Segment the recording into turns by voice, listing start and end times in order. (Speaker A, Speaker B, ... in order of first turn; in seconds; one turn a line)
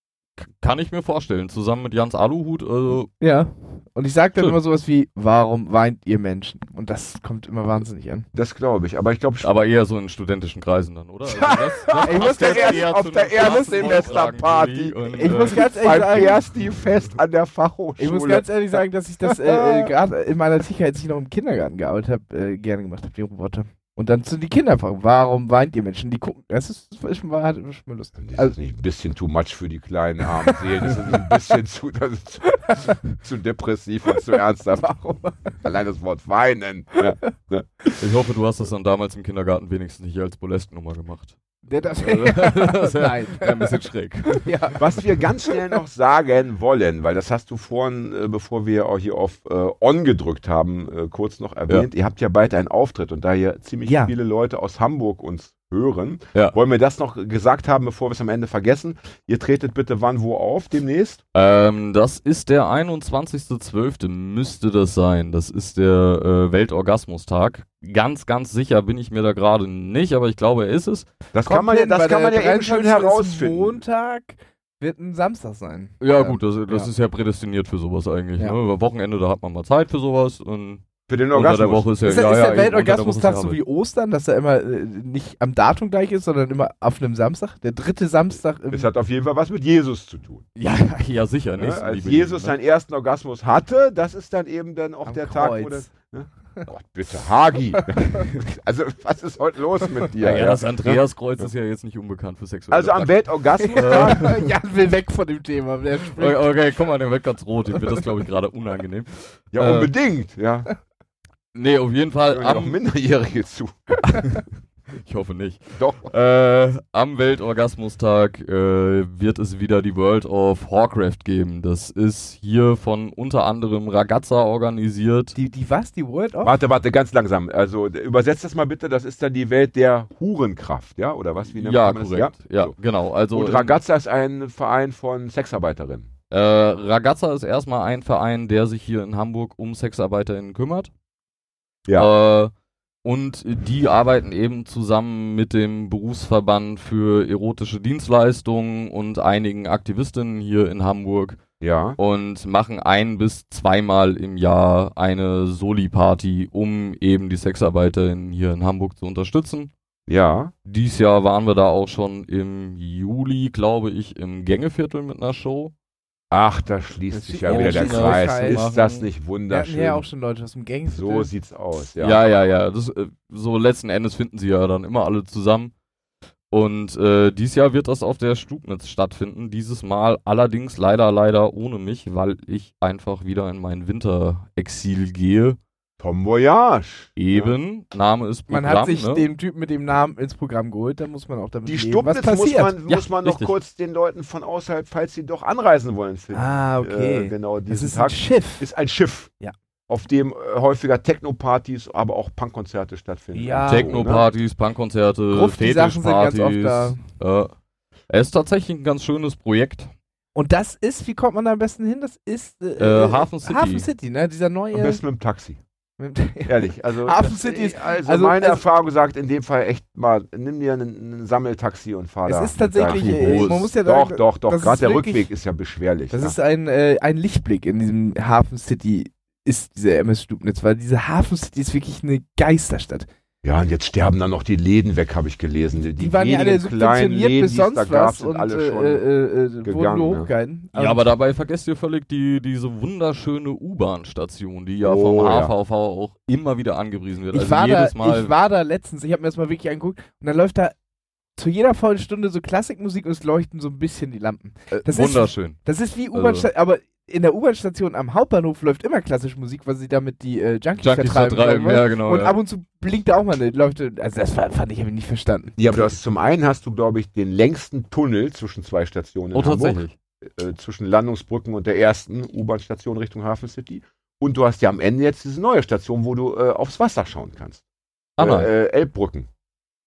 Speaker A: 0.4-3.1
Speaker B: 3.2-8.3
Speaker C: 8.3-9.5
Speaker A: 9.4-15.7
Speaker C: 11.3-18.5
Speaker B: 12.0-14.1
Speaker B: 15.1-16.4
Speaker B: 18.0-28.5
Speaker C: 19.2-19.9
Speaker C: 28.2-38.0
Speaker A: 38.0-41.4
Speaker B: 41.7-43.7
Speaker A: 42.0-44.8
Speaker B: 44.3-44.9
Speaker C: 44.8-61.2
Speaker B: 53.8-54.1
Speaker A: 61.3-71.1
Speaker C: 71.3-73.8
Speaker B: 71.4-76.9
Speaker A: 76.0-83.6
Speaker C: 81.1-81.9
Speaker B: 82.0-88.9
Speaker C: 88.7-90.4
Speaker A: 90.6-92.5
Speaker C: 91.6-101.4
Speaker B: 95.0-95.9
Speaker B: 97.8-98.3
Speaker A: 100.2-104.4
Speaker C: 102.7-104.4
Speaker B: 103.6-106.5
Speaker A: 106.2-109.9
Speaker C: 109.5-110.7
Speaker A: 111.5-112.8
Speaker C: 112.3-114.3
Speaker A: 114.9-125.3
Speaker C: 115.8-116.1
Speaker B: 125.3-126.5
Speaker C: 126.4-132.7
Speaker A: 131.5-133.7
Speaker C: 133.3-136.1
Speaker A: 136.3-140.9
Speaker A: 141.9-142.5
Speaker A: 143.0-151.4
Speaker C: 151.6-152.0
Speaker A: 152.0-159.7
Speaker C: 160.1-160.5
Speaker A: 160.7-165.7
Speaker C: 166.3-170.0
Speaker B: 167.1-168.6
Speaker A: 167.5-169.1
Speaker B: 169.5-171.3
Speaker C: 170.9-172.3
Speaker A: 172.0-175.7
Speaker A: 176.5-185.6
Speaker C: 186.0-187.5
Speaker A: 187.2-189.2
Speaker B: 188.5-192.8
Speaker C: 191.7-199.3
Speaker A: 192.9-193.5
Speaker B: 196.3-198.6
Speaker C: 199.9-204.2
Speaker B: 203.3-204.0
Speaker A: 203.7-207.5
Speaker B: 205.3-207.0
Speaker A: 208.1-209.9
Speaker B: 210.3-215.0
Speaker A: 212.8-213.9
Speaker C: 214.7-215.6
Speaker B: 216.0-218.6
Speaker C: 216.4-226.3
Speaker B: 222.2-225.3
Speaker A: 222.8-223.7
Speaker B: 226.1-233.1
Speaker C: 233.4-239.0
Speaker B: 236.0-241.1
Speaker C: 239.6-240.3
Speaker A: 240.7-248.3
Speaker C: 244.8-245.5
Speaker B: 247.3-250.7
Speaker B: 251.4-265.9
Speaker A: 254.7-255.6
Speaker A: 256.1-256.5
Speaker A: 260.8-262.4
Speaker C: 265.6-277.6
Speaker A: 269.3-269.9
Speaker A: 278.2-278.5
Speaker C: 278.2-279.3